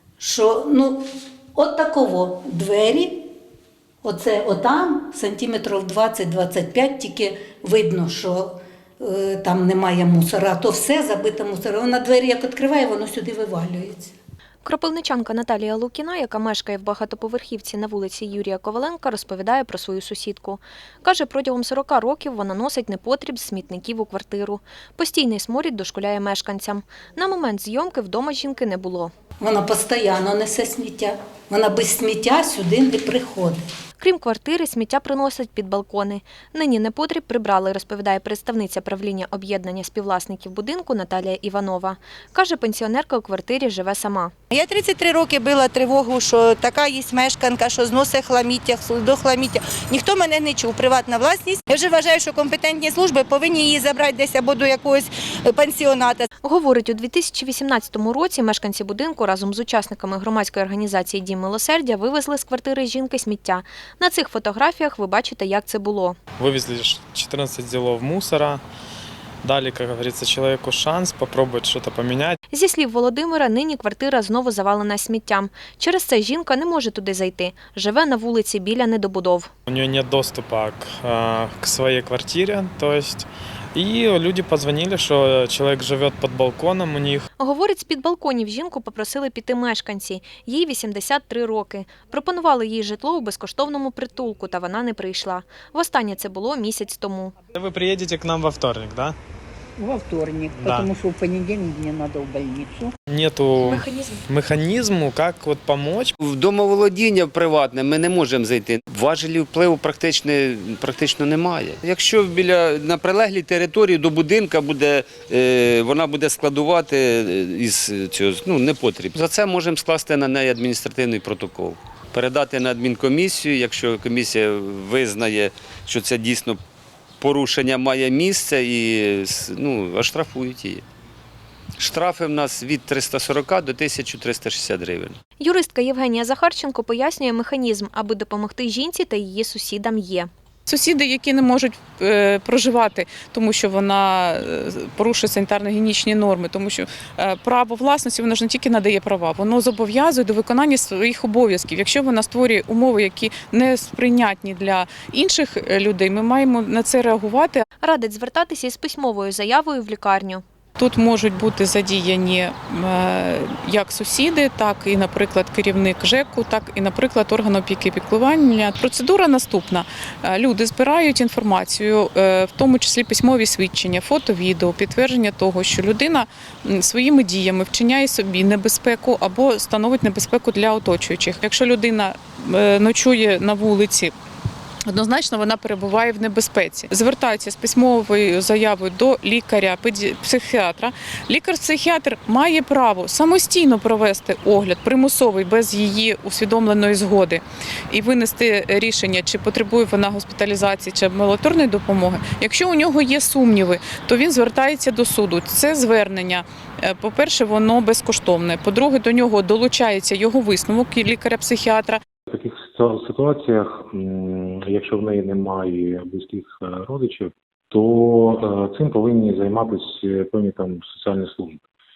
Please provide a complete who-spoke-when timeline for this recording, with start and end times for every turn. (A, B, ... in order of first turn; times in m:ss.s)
0:00.2-0:03.3 A
0:04.0-0:14.1 A
0:14.6-0:29.1 B
0:29.4-0:33.6 A
0:34.0-0:44.3 B
0:44.5-0:56.3 C
0:56.4-1:06.2 B
1:06.4-1:08.6 D
1:09.4-1:12.4 D
1:12.5-1:19.5 B
1:19.7-1:27.3 D
1:27.4-1:37.3 B
1:37.5-1:39.1 D
1:39.8-1:42.9 E
1:40.5-1:40.9 D
1:43.1-1:46.1 D
1:43.6-1:44.2 B
1:46.2-2:06.6 F
2:07.2-2:10.8 F
2:11.8-2:15.2 F
2:15.4-2:20.3 B
2:20.7-2:37.6 G
2:37.8-2:40.4 B
2:40.8-3:04.1 G
3:04.9-3:32.0 G
3:32.3-3:41.6 H